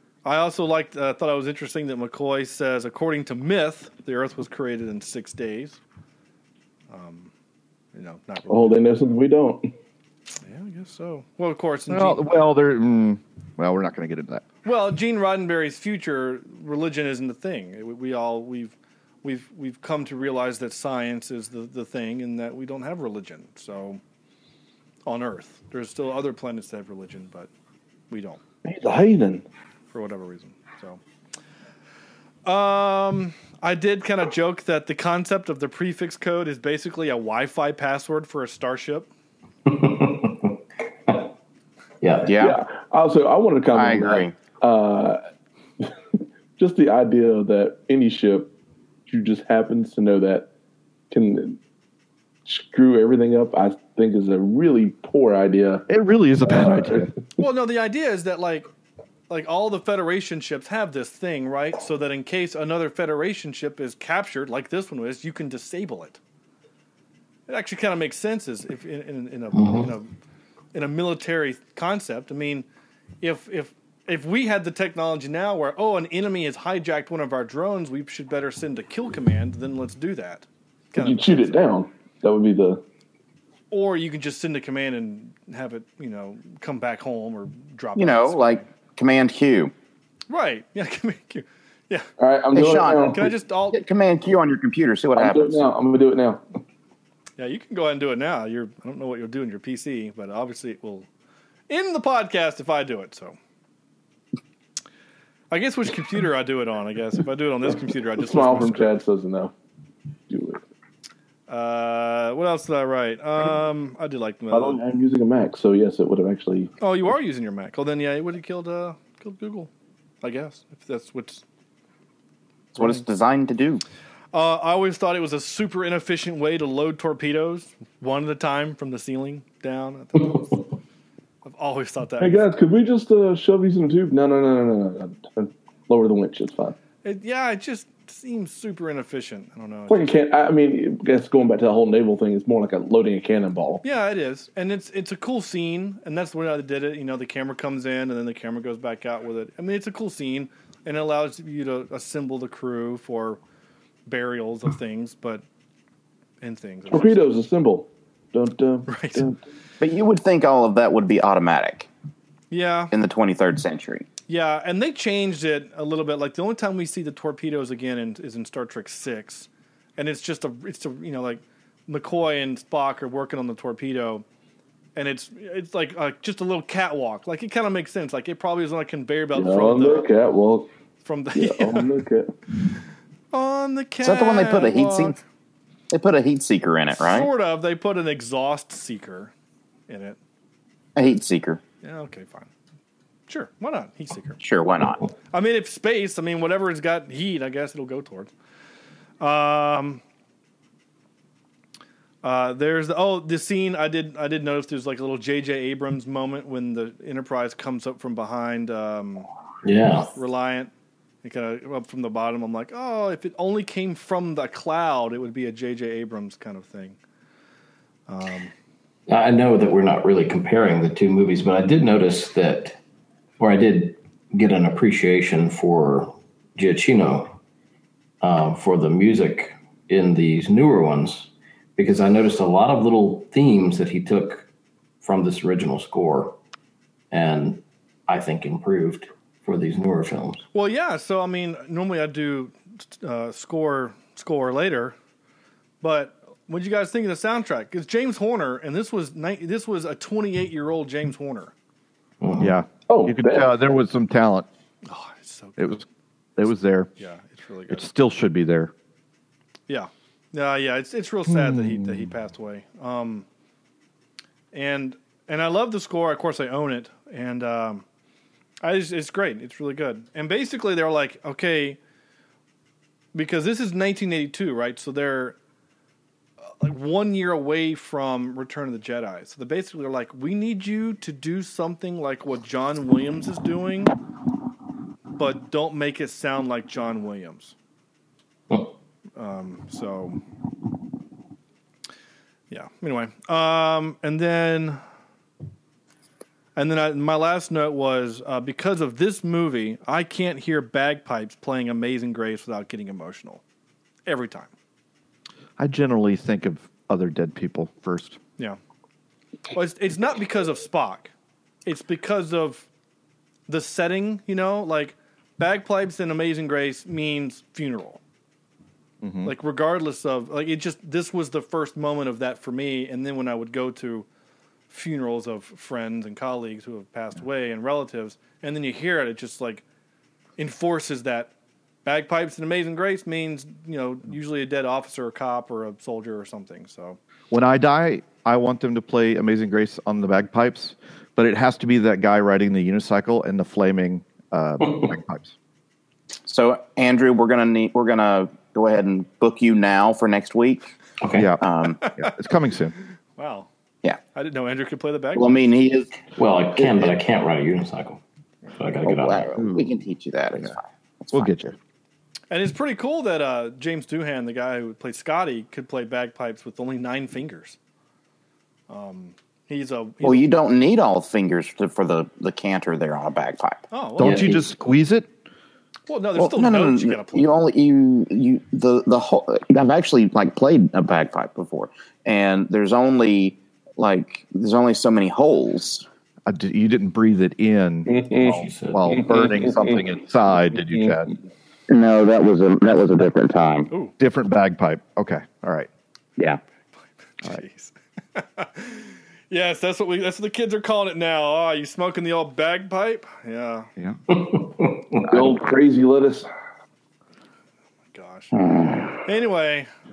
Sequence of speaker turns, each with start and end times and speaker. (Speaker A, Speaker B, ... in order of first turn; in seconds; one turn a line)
Speaker A: 0.2-5.8
Speaker A: 6.9-7.3
Speaker A: 7.9-8.9
Speaker B: 8.5-9.7
Speaker A: 10.4-12.2
Speaker C: 11.9-14.4
Speaker A: 14.7-24.0
Speaker A: 25.1-27.5
Speaker A: 28.1-28.4
Speaker B: 28.6-29.4
Speaker A: 29.9-31.0
Speaker A: 32.5-39.1
Speaker D: 39.7-40.5
Speaker D: 42.0-42.3
Speaker E: 42.3-42.6
Speaker B: 42.4-45.2
Speaker E: 43.7-44.4
Speaker B: 46.6-48.5
Speaker B: 49.1-50.5
Speaker B: 51.1-51.6
Speaker B: 52.5-55.9
Speaker C: 55.9-57.1
Speaker B: 56.5-57.1
Speaker A: 57.4-58.7
Speaker A: 59.3-66.2
Speaker A: 67.5-70.1
Speaker D: 69.5-69.9
Speaker A: 70.7-72.7
Speaker A: 73.2-81.7
Speaker B: 81.0-82.8
Speaker A: 83.7-88.7
Speaker E: 88.0-89.7
Speaker A: 90.3-92.1
Speaker B: 92.2-93.3
Speaker E: 92.5-95.7
Speaker A: 93.1-93.8
Speaker B: 95.2-96.4
Speaker A: 97.4-101.1
Speaker A: 101.7-103.4
Speaker A: 105.5-109.0
Speaker B: 108.2-109.5
Speaker B: 110.3-110.6
Speaker A: 111.5-114.8
Speaker B: 114.5-116.7
Speaker A: 116.8-119.7
Speaker A: 120.2-121.4
Speaker E: 122.8-123.8
Speaker A: 124.3-130.6
Speaker A: 131.4-132.6
Speaker B: 132.2-136.8
Speaker A: 137.0-140.1
Speaker B: 139.9-143.8
Speaker A: 143.8-153.4
Speaker A: 154.1-155.4
Speaker A: 156.4-157.3
Speaker B: 156.9-159.4
Speaker A: 158.9-159.3
Speaker E: 159.8-161.9
Speaker A: 162.5-162.9
Speaker E: 162.9-164.1
Speaker A: 164.3-174.2
Speaker A: 175.0-180.1
Speaker B: 179.3-180.7
Speaker A: 181.0-182.0
Speaker B: 181.3-182.3
Speaker A: 183.3-185.2
Speaker E: 184.0-185.2
Speaker E: 185.9-187.3
Speaker A: 187.0-189.3
Speaker A: 189.9-190.2
Speaker E: 191.0-191.6
Speaker A: 191.8-192.5
Speaker A: 193.3-194.4
Speaker E: 194.4-195.1
Speaker A: 195.3-198.3
Speaker A: 199.2-200.0
Speaker A: 202.2-209.3
Speaker D: 209.6-210.1
Speaker A: 210.1-210.7
Speaker A: 211.2-217.0
Speaker A: 218.1-218.5
Speaker D: 219.1-222.8
Speaker D: 223.4-227.4
Speaker D: 228.2-234.5
Speaker D: 235.0-236.4
Speaker D: 237.1-240.4
Speaker A: 240.5-245.0
Speaker A: 245.8-251.5
Speaker D: 252.2-252.5
Speaker C: 252.4-254.5
Speaker B: 252.9-253.5
Speaker A: 254.8-255.8
Speaker C: 255.6-255.8
Speaker C: 256.4-256.9
Speaker A: 257.0-257.9
Speaker C: 257.7-258.7
Speaker A: 259.7-263.3
Speaker C: 261.3-262.1
Speaker A: 264.5-267.9
Speaker A: 268.6-271.8
Speaker A: 273.1-275.4
Speaker A: 276.6-283.9
Speaker A: 285.2-287.5
Speaker A: 289.2-290.2
Speaker A: 292.5-294.8
Speaker A: 296.6-303.4
Speaker A: 304.1-304.5
Speaker C: 305.6-308.2
Speaker A: 309.5-311.1
Speaker A: 311.6-312.7
Speaker A: 313.5-318.0
Speaker C: 319.0-319.3
Speaker A: 319.2-324.1
Speaker A: 324.7-329.6
Speaker A: 330.4-331.3
Speaker A: 331.9-337.0
Speaker C: 337.3-345.3
Speaker D: 344.6-344.9
Speaker E: 346.3-350.7
Speaker D: 351.0-351.3
Speaker C: 351.1-351.4
Speaker E: 351.4-351.8
Speaker A: 351.8-352.1
Speaker C: 352.0-352.8
Speaker A: 353.2-353.5
Speaker A: 354.1-355.4
Speaker E: 355.1-355.9
Speaker D: 356.2-358.0
Speaker E: 356.6-357.0
Speaker D: 358.6-359.4
Speaker E: 358.9-361.3
Speaker C: 359.4-359.7
Speaker C: 361.1-361.6
Speaker A: 362.3-367.6
Speaker A: 368.7-370.3
Speaker E: 370.0-373.6
Speaker A: 373.7-374.4
Speaker C: 374.0-375.1
Speaker D: 374.0-374.4
Speaker A: 375.9-377.3
Speaker E: 376.1-385.9
Speaker C: 386.3-391.1
Speaker B: 387.9-389.8
Speaker D: 388.2-389.0
Speaker B: 390.7-391.0
Speaker E: 391.7-393.7
Speaker C: 394.0-395.7
Speaker A: 397.2-403.7
Speaker D: 404.1-405.0
Speaker B: 405.0-406.3
Speaker A: 407.9-408.3
Speaker E: 408.3-409.0
Speaker A: 408.9-409.7